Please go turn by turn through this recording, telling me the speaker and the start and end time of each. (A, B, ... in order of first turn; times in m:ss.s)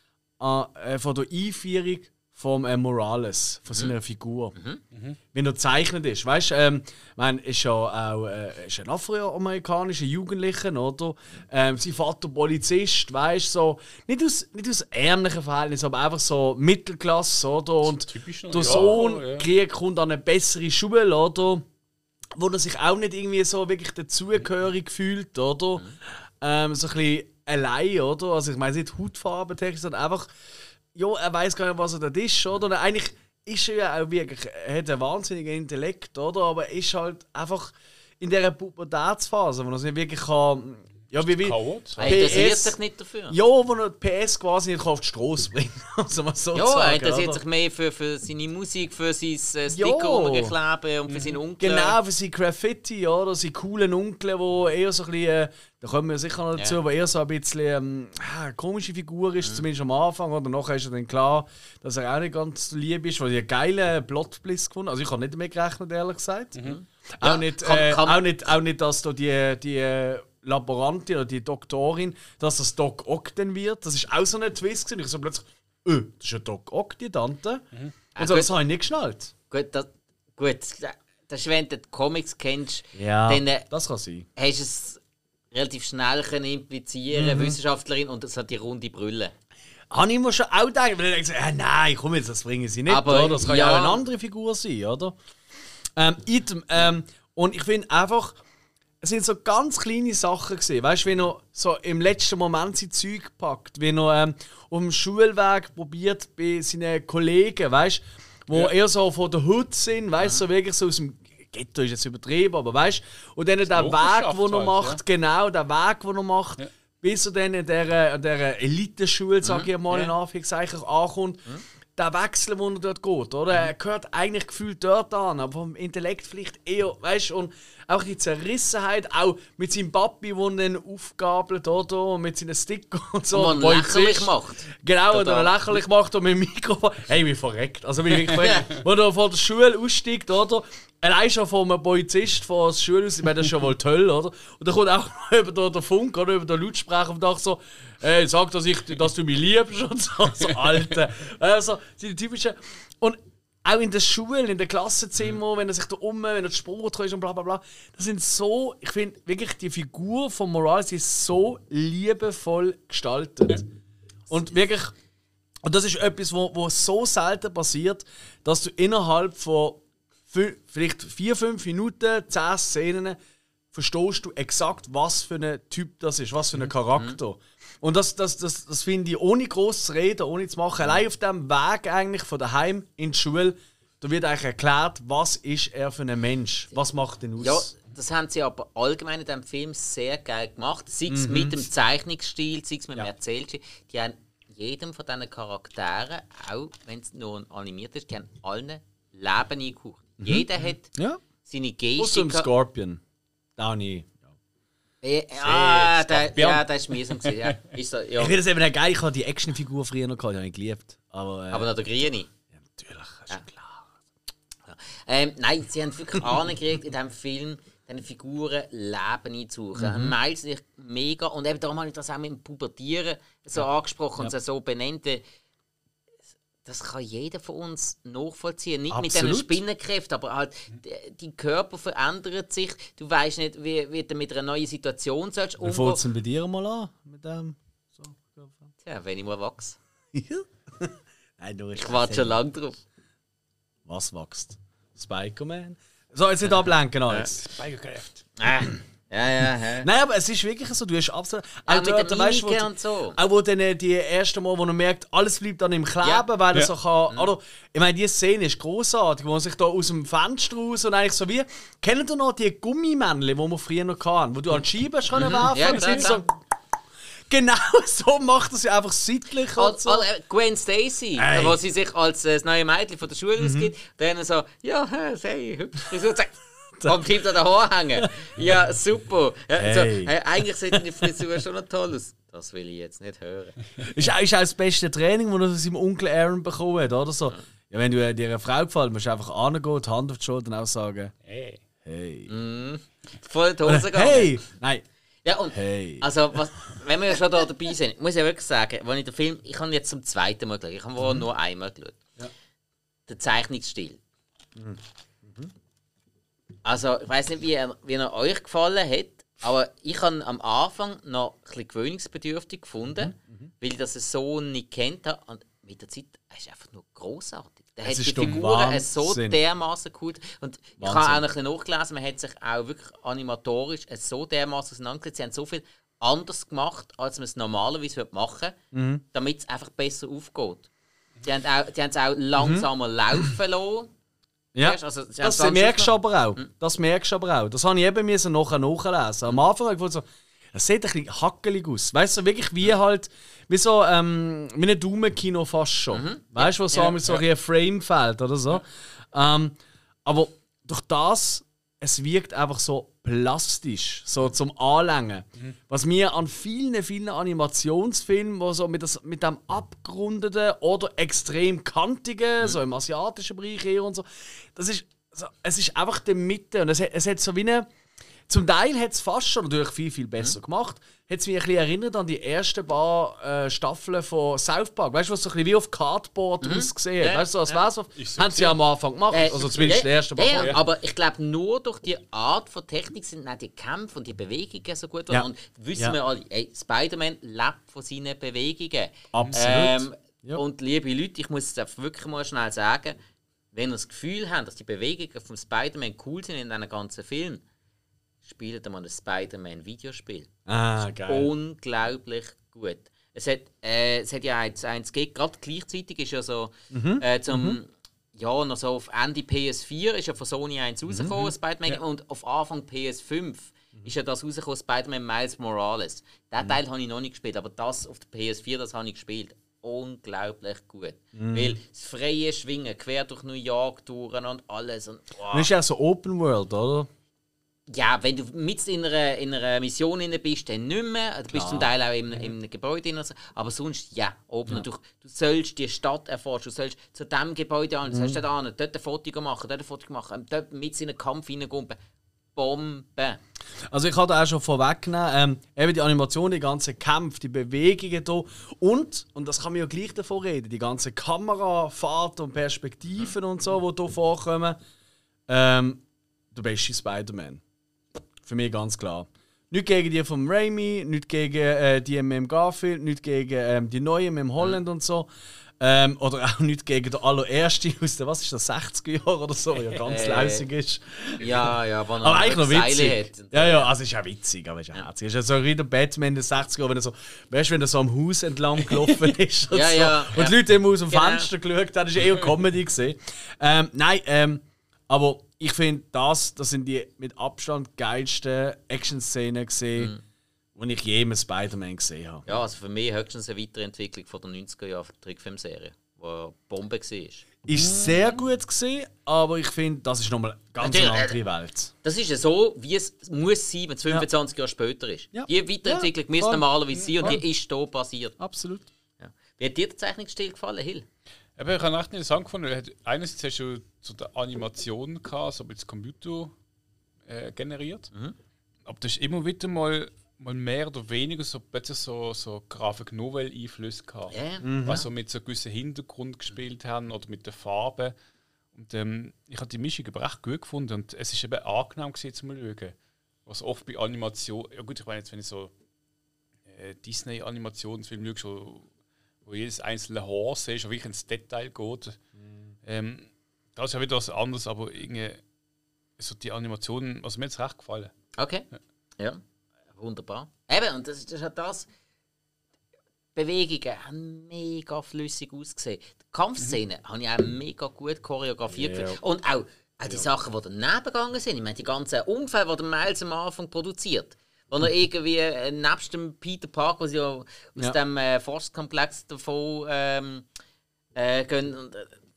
0:00.4-0:04.5 A
0:04.6-0:04.8 B
0:04.9-0:05.2 C
0:05.3-0:21.6 A
0:17.8-0:19.4 C
0:22.4-0:30.3 A
0:30.9-0:42.8 A
0:41.1-0:42.4 C
0:42.0-0:43.4 B
0:43.3-0:47.4 A
0:46.5-0:52.0 B
0:49.7-0:50.5 A
0:51.1-0:51.4 C
0:51.6-1:06.6 A
1:06.6-1:08.2 B
1:07.2-1:17.6 A
1:18.1-1:18.5 B
1:18.2-1:19.3 A
1:19.5-1:23.7 B
1:22.9-1:24.3 A
1:24.4-1:25.0 B
1:25.5-1:29.3 B
1:27.1-1:27.6 A
1:29.9-1:35.1 A
1:32.9-1:34.0 B
1:36.0-1:38.4 A
1:39.0-2:01.4 A
1:53.7-1:55.0 C
1:59.4-2:00.1 B
2:02.0-2:43.6 A
2:13.3-2:15.8 B
2:18.4-2:18.7 B
2:44.3-2:44.9 A
2:45.6-2:53.2 A
2:53.7-3:07.7 A
3:07.4-3:20.9 B
3:11.1-3:11.6 A
3:20.2-3:21.2 A
3:21.4-3:22.5 B
3:22.0-3:23.0 A
3:23.6-3:24.3 A
3:25.0-3:28.4 B
3:25.4-3:27.6 C
3:28.2-3:31.7 A
3:31.5-3:32.3 B
3:32.6-3:33.9 A
3:34.7-3:45.2 B
3:39.8-3:40.1 A
3:46.6-3:56.0 B
3:48.9-3:49.6 A
3:55.6-3:58.7 A
3:58.8-3:59.8 B
4:00.1-4:02.4 A
4:01.8-4:02.8 B
4:03.8-4:07.4 A
4:07.1-4:08.2 C
4:08.4-4:09.9 B
4:09.8-4:26.3 A
4:11.6-4:13.2 B
4:25.1-4:26.2 B
4:25.4-4:26.0 C
4:27.3-4:30.0 A
4:29.5-4:43.6 B
4:31.2-4:31.6 A
4:33.4-4:33.7 A
4:39.6-4:40.1 A
4:43.8-4:51.1 A
4:51.2-4:51.6 C
4:51.8-4:52.3 A
4:52.3-4:54.4 B
4:53.6-4:54.8 A
4:55.2-5:02.0 B
4:55.5-4:56.4 A
5:03.1-5:04.0 B
5:04.6-5:05.5 A
5:06.6-5:28.6 B
5:13.1-5:13.5 A
5:17.8-5:19.4 A
5:20.8-5:21.2 A
5:28.7-5:29.0 A
5:29.1-5:30.7 B
5:31.2-5:33.9 B
5:32.4-5:32.7 A
5:34.5-6:07.7 A
5:34.6-5:36.4 B
5:45.9-5:47.0 B
6:08.3-6:20.6 A
6:16.4-6:17.6 B
6:18.0-6:18.6 C
6:19.1-6:33.0 B
6:19.3-6:19.8 C
6:20.3-6:20.6 C
6:25.1-6:26.0 A
6:29.1-6:30.4 A
6:33.5-6:37.4 B
6:38.2-6:40.3 B
6:40.5-6:41.3 A
6:41.0-7:05.5 B
6:46.7-6:47.6 A
6:50.9-6:51.2 A
7:01.1-7:01.6 A
7:05.3-7:06.9 A
7:07.7-7:21.8 B
7:11.3-7:11.7 A
7:17.9-7:18.2 A
7:22.3-7:23.2 B
7:23.7-7:34.6 A
7:35.3-7:35.8 A
7:36.3-7:37.4 A
7:38.2-7:45.1 A
7:45.6-8:09.9 A
7:49.8-7:50.4 B
7:51.2-7:53.7 B
7:59.5-8:01.3 B
8:09.8-8:10.0 B
8:10.5-8:12.3 A
8:12.3-8:17.2 B
8:17.4-8:21.7 A
8:17.6-8:18.0 C
8:20.6-8:21.2 B
8:21.8-8:28.1 B
8:25.1-8:26.5 A
8:26.8-8:27.2 C
8:28.2-8:28.7 A
8:29.0-8:30.8 B
8:31.4-8:36.3 C
8:37.0-8:37.9 C
8:38.6-8:47.9 C
8:44.1-8:44.5 B
8:44.4-8:44.8 A
8:48.5-8:55.5 C
8:56.5-8:58.7 C
8:59.2-9:02.0 C
9:02.6-9:05.2 C
9:06.0-9:07.9 C
9:08.2-9:08.5 B
9:09.7-9:11.7 B
9:13.1-9:30.3 B
9:18.5-9:19.0 A
9:30.9-9:32.0 B